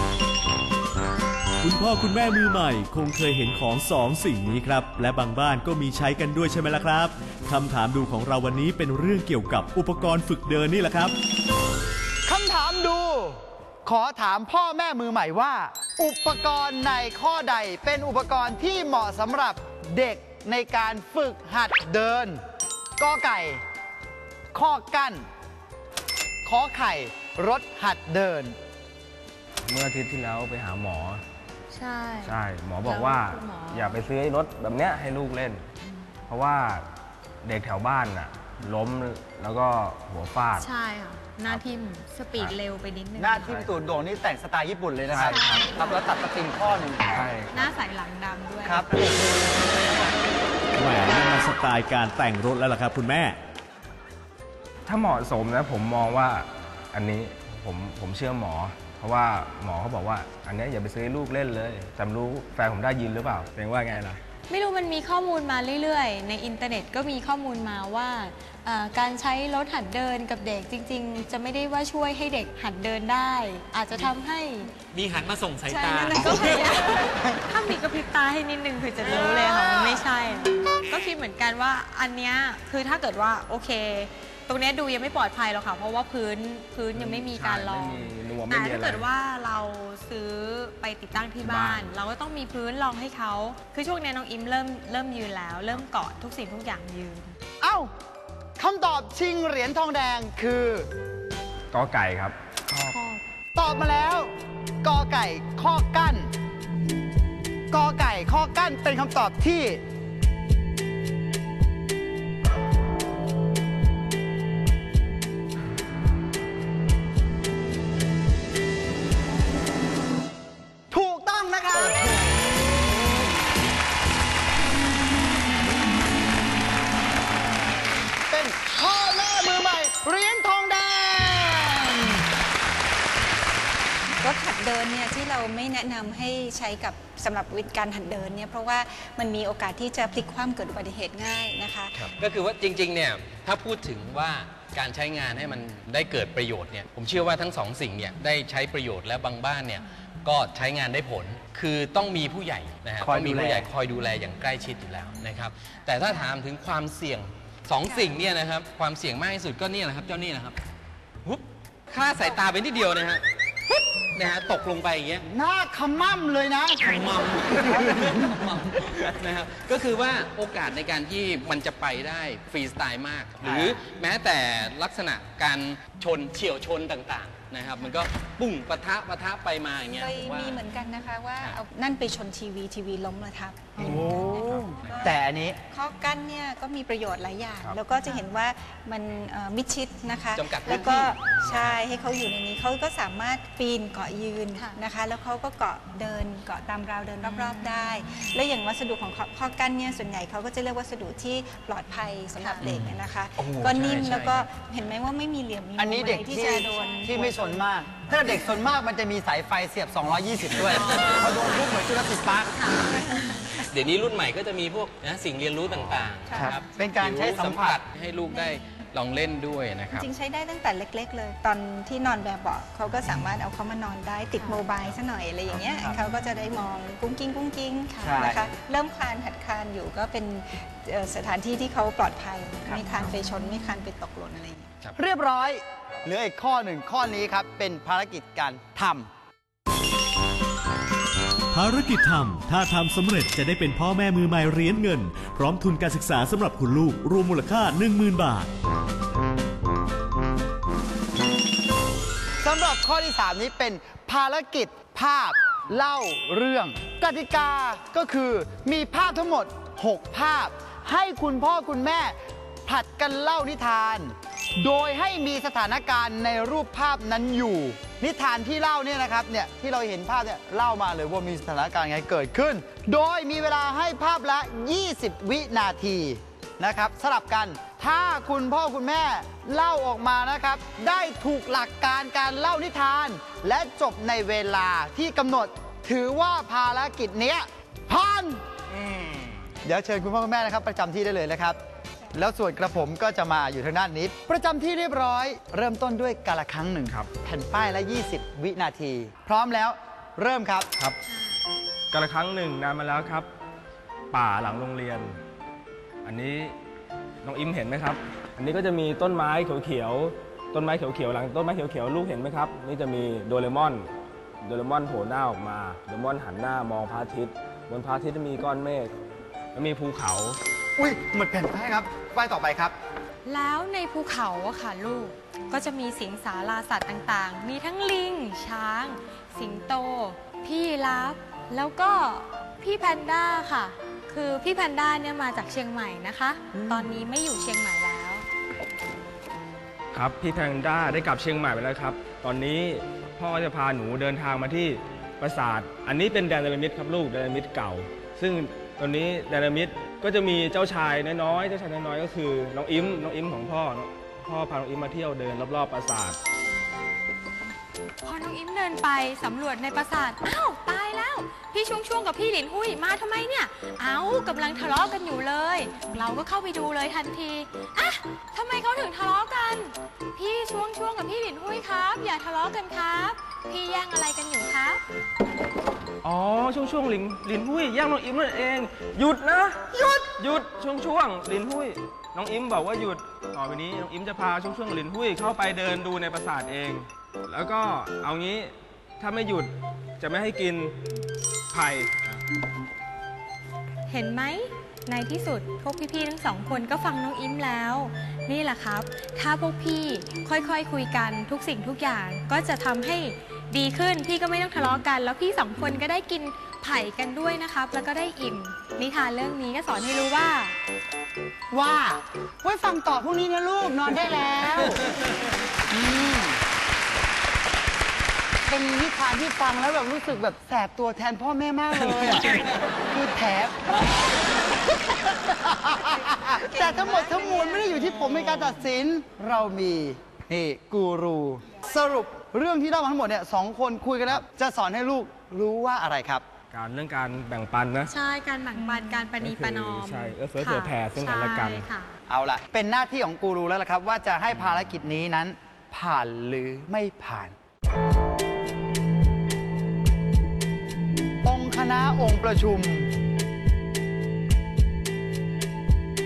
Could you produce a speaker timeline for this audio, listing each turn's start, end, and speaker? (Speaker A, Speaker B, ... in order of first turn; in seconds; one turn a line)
Speaker A: 1.6-11.1
Speaker B: 12.3-22.4
Speaker B: 23.0-23.6
Speaker B: 24.5-25.3
Speaker B: 26.4-28.6
Speaker C: 29.6-31.2
Speaker D: 31.7-34.0
Speaker C: 32.2-35.7
Speaker C: 36.3-36.9
Speaker C: 37.4-40.7
Speaker D: 40.6-43.6
Speaker B: 43.2-47.3
Speaker C: 45.1-45.7
Speaker D: 45.2-46.0
Speaker C: 47.0-47.7
Speaker D: 47.5-48.9
Speaker B: 48.6-50.1
Speaker A: 50.8-53.4
Speaker C: 54.9-64.2
Speaker D: 64.5-74.7
Speaker E: 74.9-76.7
Speaker F: 75.7-77.3
Speaker D: 76.2-97.4
Speaker F: 79.0-80.1
Speaker C: 86.9-89.1
Speaker C: 91.4-91.9
Speaker B: 97.6-97.9
Speaker B: 98.6-100.9
Speaker C: 101.7-103.0
Speaker D: 102.9-103.2
Speaker B: 103.5-104.3
Speaker B: 104.8-106.3
Speaker B: 107.7-109.8
Speaker B: 120.9-122.9
Speaker B: 128.3-132.2
Speaker F: 134.2-142.1
Speaker E: 142.0-160.6
Speaker B: 153.0-153.7
Speaker E: 161.2-163.2
Speaker E: 164.1-165.2
Speaker B: 165.2-168.4
Speaker E: 166.8-180.7
Speaker B: 173.4-173.8
Speaker F: 179.9-207.6
Speaker B: 183.8-185.6
Speaker C: 183.9-184.7
Speaker E: 184.8-185.2
Speaker E: 190.3-191.8
Speaker D: 197.2-198.3
Speaker D: 202.4-202.7
Speaker E: 202.6-204.5
Speaker B: 205.8-212.9
Speaker D: 206.4-207.4
Speaker E: 210.6-211.5
Speaker F: 212.8-213.7
Speaker E: 213.5-220.1
Speaker F: 216.3-216.6
Speaker B: 216.3-217.8
Speaker F: 218.3-218.7
Speaker F: 219.9-234.7
Speaker B: 228.0-228.4
Speaker B: 235.0-239.1
Speaker A: 241.5-248.5
Speaker B: 252.4-288.4
Speaker E: 288.7-289.5
Speaker B: 289.6-291.6
Speaker B: 292.1-300.7
Speaker D: 301.1-301.4
Speaker C: 301.9-303.3
Speaker C: 304.1-305.2
Speaker C: 306.0-306.6
Speaker C: 307.2-313.9
Speaker C: 314.4-318.9
Speaker C: 319.5-320.4
Speaker B: 320.8-322.7
Speaker D: 323.3-338.3
Speaker B: 336.5-336.9
Speaker C: 339.9-356.2
Speaker D: 358.0-374.8
Speaker C: 376.0-390.8
Speaker B: 379.7-380.0
Speaker C: 391.5-392.2
Speaker D: 393.9-410.6
Speaker B: 411.5-414.8
Speaker B: 415.7-416.4
Speaker B: 418.5-436.2
Speaker F: 425.9-427.9
Speaker C: 436.5-437.9
Speaker D: 437.9-442.0
Speaker F: 438.6-439.1
Speaker C: 439.2-441.6
Speaker B: 442.1-447.4
Speaker B: 451.2-452.9